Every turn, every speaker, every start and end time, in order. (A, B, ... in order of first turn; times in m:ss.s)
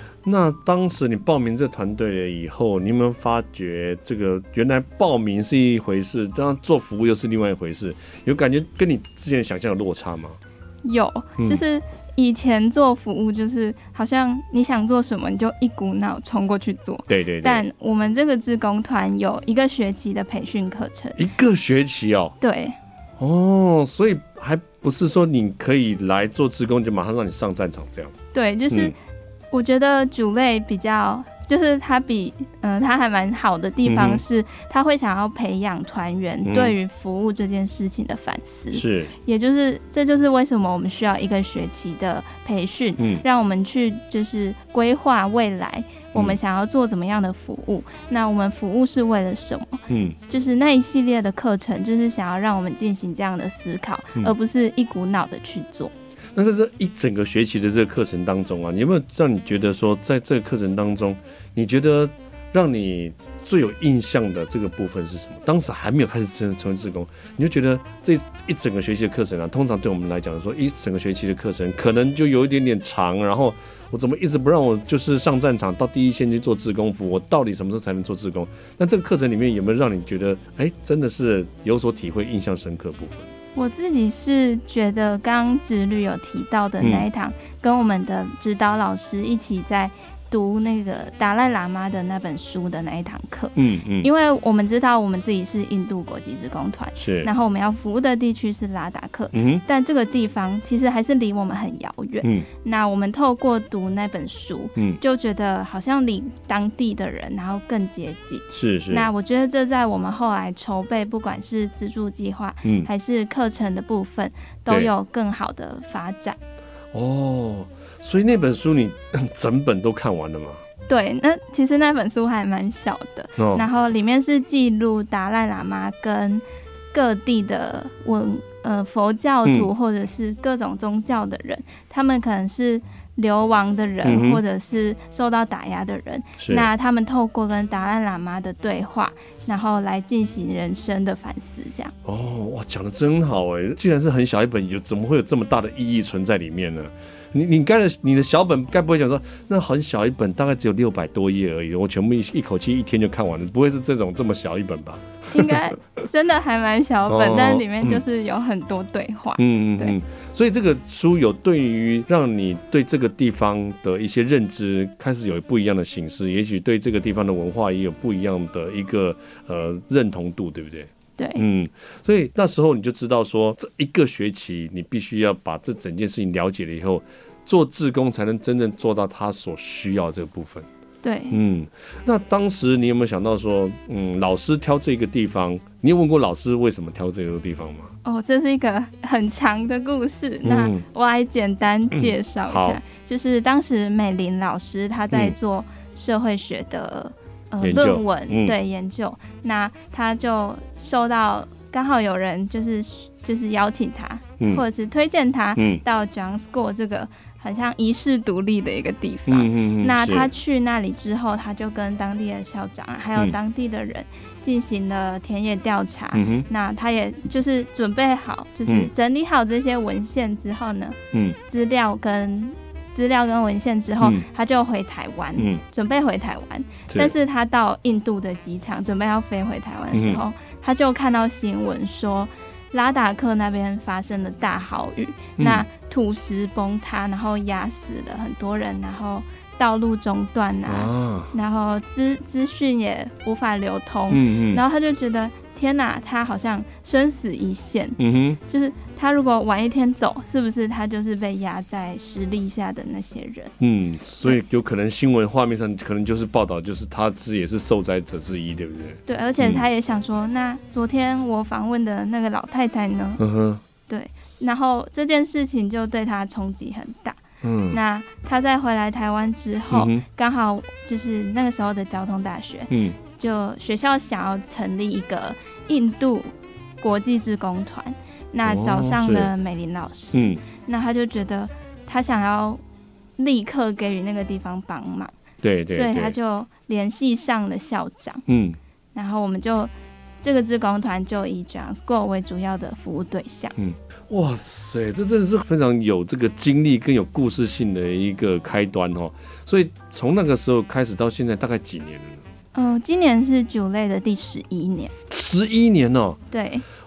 0:00.2-0:10.4 A
0:10.8-0:21.3 B
0:17.1-0:17.6 A
0:21.2-0:22.4 A
0:22.4-0:22.8 B
0:23.2-0:28.1 A
0:28.3-0:28.9 B
0:29.5-0:55.9 B
0:33.8-0:34.2 A
0:36.4-0:36.7 A
0:38.7-0:39.1 A
0:43.0-0:43.2 A
0:49.9-0:50.2 A
0:56.3-1:23.3 A
1:23.5-1:56.4 B
1:26.8-1:27.1 A
1:33.6-1:34.1 A
1:37.0-1:37.3 A
1:39.3-1:39.6 A
1:42.2-1:42.5 A
1:48.5-1:49.1 A
1:54.7-1:54.9 A
1:56.9-2:00.6 A
2:00.9-2:21.9 B
2:03.4-2:03.6 A
2:14.0-2:14.4 A
2:16.4-2:16.7 A
2:22.0-2:35.7 A
2:35.3-2:39.9 B
2:37.1-2:38.0 A
2:39.4-3:00.7 A
2:51.2-2:51.4 B
3:01.0-3:01.4 B
3:01.3-3:07.9 A
3:08.0-4:13.5 B
3:10.4-3:10.8 A
3:11.9-3:12.8 A
3:17.6-3:18.6 A
3:25.6-3:25.8 A
3:29.3-3:30.3 A
3:36.1-3:36.4 A
3:45.4-3:45.6 A
3:46.9-3:47.1 A
3:49.9-3:50.2 A
3:55.4-3:55.6 A
4:00.7-4:01.3 A
4:04.1-4:04.6 A
4:08.0-4:08.4 A
4:13.6-4:19.6 A
4:19.1-4:23.2 B
4:23.2-4:23.6 A
4:23.9-4:27.2 B
4:27.4-4:27.8 A
4:27.7-4:42.6 B
4:29.7-4:30.0 A
4:32.7-4:33.0 A
4:38.4-4:39.3 A
4:40.1-4:40.4 A
4:43.2-4:45.1 B
4:45.4-4:46.1 A
4:45.7-4:48.2 B
4:48.3-4:48.6 A
4:48.9-4:53.5 B
4:53.6-5:02.2 A
5:02.5-5:04.9 B
5:05.1-5:06.2 A
5:06.3-5:06.6 B